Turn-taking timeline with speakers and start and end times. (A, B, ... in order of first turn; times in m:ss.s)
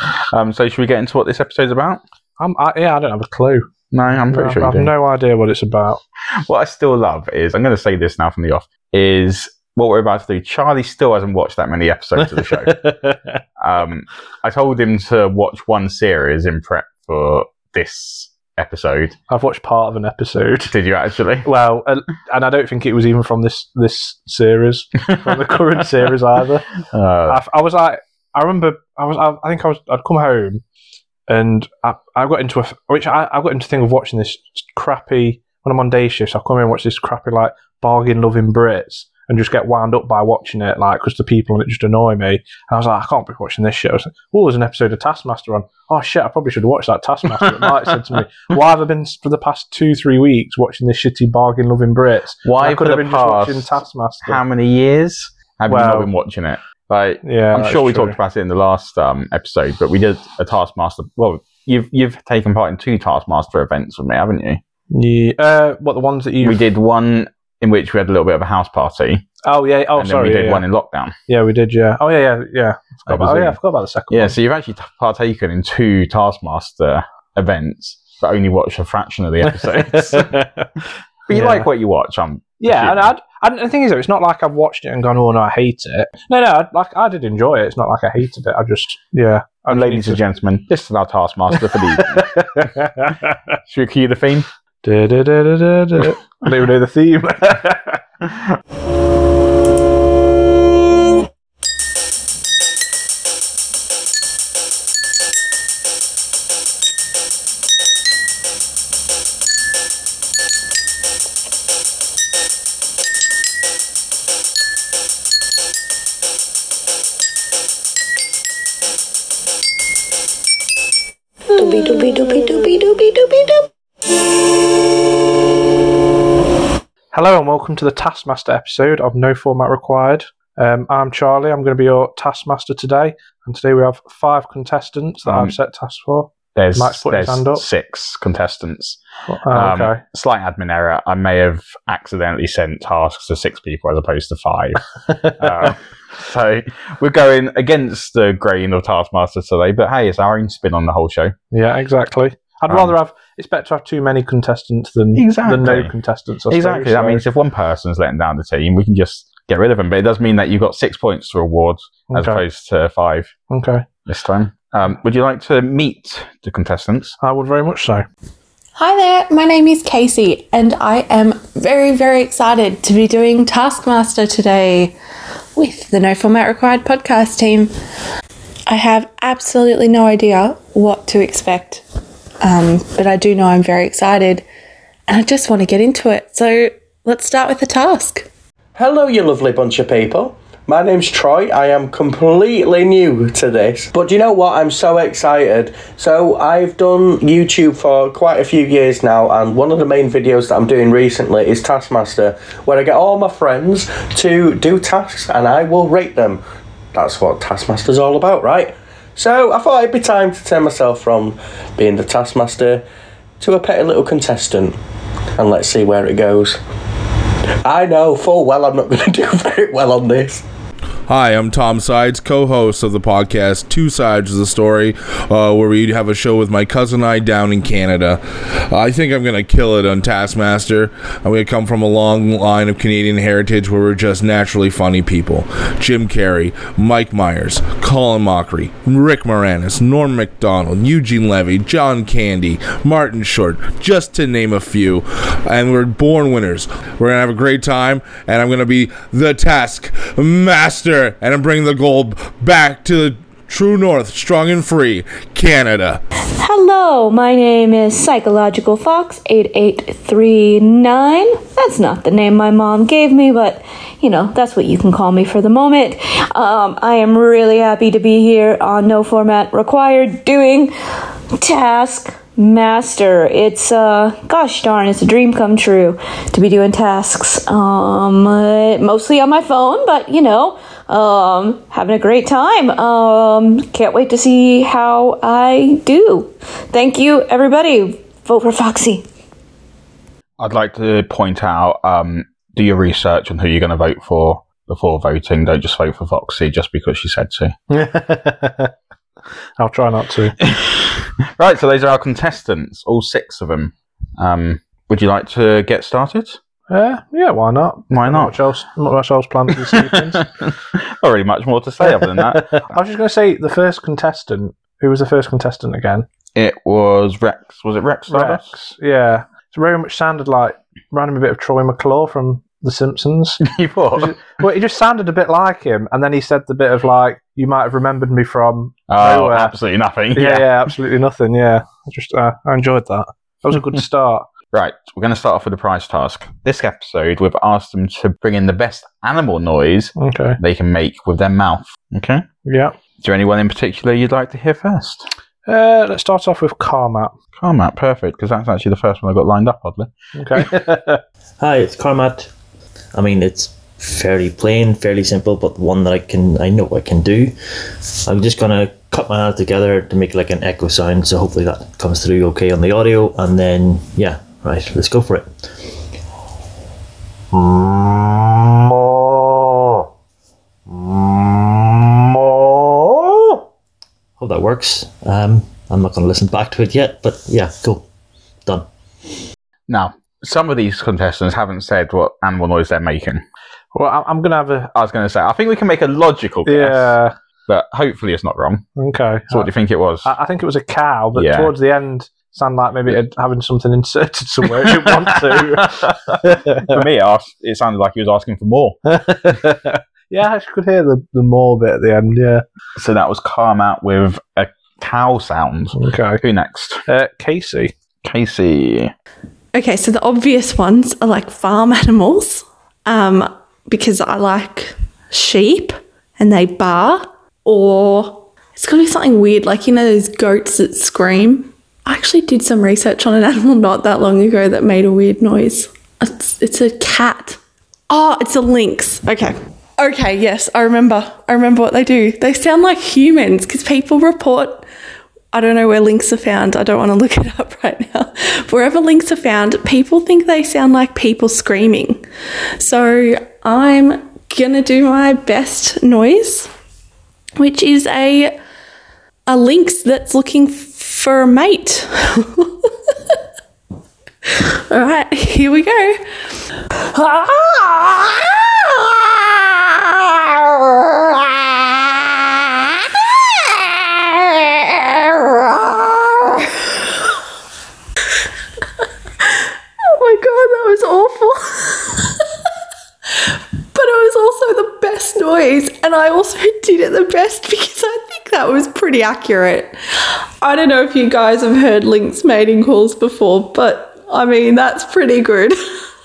0:00.3-0:02.0 A
0:02.4-0:03.7 B
0:03.9-0:04.9 A
0:04.3-0:06.0 B
0:06.4-0:12.9 A
0:12.2-0:13.4 B
0:13.6-0:19.2 A
0:19.3-0:20.7 B
0:20.7-0:21.4 A
0:21.4-0:26.7 B
0:26.9-0:27.4 A
0:27.3-0:30.6 B
0:31.3-0:54.4 B
0:52.4-1:04.6 A
0:55.7-0:56.1 B
0:57.2-0:58.2 B
1:04.9-1:06.6 B
1:06.4-1:09.3 A
1:09.4-1:10.6 B
1:10.0-1:11.2 A
1:11.3-1:14.4 B
1:13.1-1:13.6 A
1:14.1-1:20.4 A
1:19.4-1:20.7 B
1:21.3-1:23.1 A
1:21.3-1:21.7 B
1:22.6-1:30.2 B
1:29.7-1:32.4 A
1:31.8-1:33.4 B
1:33.7-1:34.5 A
1:34.8-1:38.0 B
2:01.5-2:03.7 C
2:07.1-2:17.6 B
2:15.2-2:15.5 A
2:16.5-2:31.3 A
2:19.3-2:20.0 B
2:25.1-2:25.7 B
2:31.5-2:37.2 B
2:32.7-2:32.9 A
2:35.2-2:35.9 A
2:36.5-2:43.3 A
2:42.1-2:42.4 B
2:43.5-2:43.8 B
2:44.1-2:47.2 A
2:47.2-2:48.0 B
2:48.8-2:55.0 D
2:55.6-2:57.7 D
2:58.7-3:01.8 D
3:02.4-3:04.5 D
3:05.1-3:08.3 D
3:08.7-3:26.4 E
3:26.9-3:32.8 E
3:33.4-3:34.8 E
3:35.4-3:36.6 E
3:37.6-3:40.4 E
3:41.1-4:16.0 F
4:16.4-4:30.7 G
4:31.3-4:49.0 G
4:50.4-4:57.5 A
4:57.7-4:58.7 B
4:59.6-5:00.4 B
5:00.4-5:06.4 A
5:06.7-5:10.2 B
5:07.9-5:08.4 A
5:09.7-5:12.7 A
5:11.8-5:16.0 B
5:16.4-5:18.5 A
5:18.1-5:23.4 B
5:23.4-5:24.1 A
5:24.0-5:29.5 B
5:28.9-5:30.7 A
5:30.1-5:34.3 B
5:34.5-5:42.3 A
5:40.0-5:40.4 B
5:42.4-5:42.8 B
5:43.0-5:45.1 A
5:45.5-5:47.1 B
5:47.4-5:50.5 A
5:50.2-5:51.0 B
5:51.4-5:52.3 H
5:52.9-5:57.4 H
5:57.9-6:05.7 H
6:07.3-6:09.7 H
6:10.7-6:13.4 H
6:14.2-6:17.9 H
6:18.4-6:19.1 H
6:19.7-6:23.2 A
6:23.7-6:24.7 B
6:24.8-6:28.7 A
6:26.5-6:27.1 B
6:28.8-6:29.5 B
6:29.3-6:30.1 A
6:30.0-6:36.8 B
6:31.1-6:31.5 A
6:34.5-6:38.8 A
6:38.9-6:42.4 B
6:42.8-6:46.8 A
6:45.8-6:46.2 B
6:46.9-6:47.7 B
6:48.0-6:48.9 A
6:49.5-7:14.6 D
7:15.3-7:22.0 D
7:22.6-7:26.5 D
7:27.4-7:28.4 D
7:29.3-7:32.7 D
7:34.7-7:36.0 D
7:49.8-7:52.2 D
7:53.7-7:59.8 D
8:00.4-8:05.6 D